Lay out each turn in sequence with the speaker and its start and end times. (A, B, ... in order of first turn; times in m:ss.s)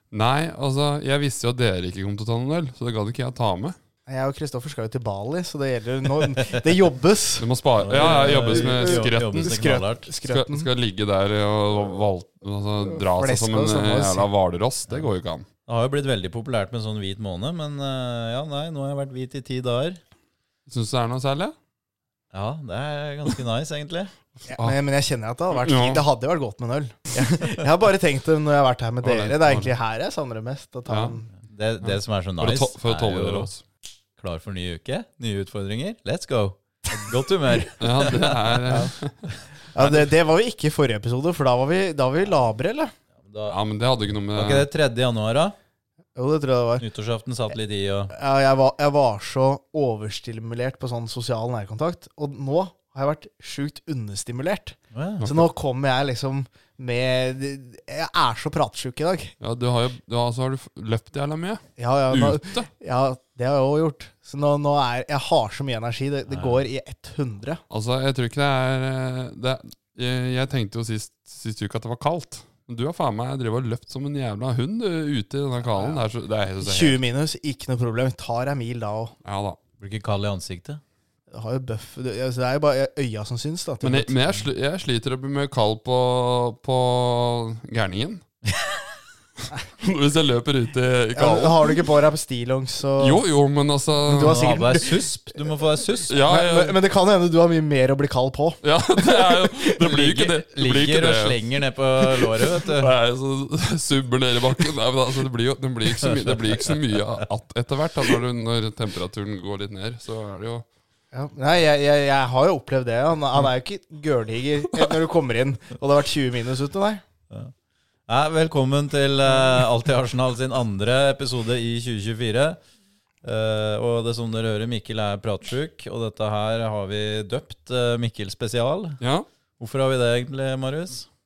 0:00.1-0:03.8 A
0:04.1-0:10.7 B
0:07.4-0:09.6 A
0:07.8-0:10.1 C
0:10.2-0:15.5 A
0:12.8-0:14.3 B
0:15.6-0:20.0 C
0:20.7-0:21.6 A
0:22.3-0:24.1 C
0:24.4-0:24.8 A
0:24.5-0:31.3 B
0:25.5-0:26.0 A
0:29.0-0:29.7 A
0:30.9-0:31.2 A
0:31.4-0:33.5 C
0:31.8-0:33.6 A
0:34.2-0:38.6 C
0:37.8-0:39.2 A
0:39.7-0:42.9 B
0:39.8-0:40.0 A
0:43.2-0:43.6 C
0:43.5-0:44.7 A
0:44.3-0:45.6 C
0:46.1-0:46.8 B
0:46.8-0:48.1 C
0:48.1-0:59.3 B
0:54.9-0:55.2 C
0:59.4-1:02.7 A
1:01.8-1:07.6 B
1:06.3-1:06.6 C
1:07.7-1:17.0 A
1:15.6-1:16.0 B
1:16.6-1:19.1 B
1:19.2-1:19.6 A
1:19.8-1:20.8 C
1:21.3-1:24.1 B
1:23.8-1:28.2 A
1:29.4-1:31.9 A
1:31.1-1:33.2 B
1:33.0-1:34.5 A
1:34.1-1:35.1 B
1:34.1-1:36.2 C
1:36.1-1:36.8 A
1:36.2-1:39.7 B
1:38.6-1:41.4 A
1:39.8-1:42.9 C
1:42.5-1:50.6 A
1:51.1-1:57.0 B
1:58.1-2:02.6 C
2:03.2-2:09.0 C
2:09.0-2:09.2 A
2:09.6-2:11.1 C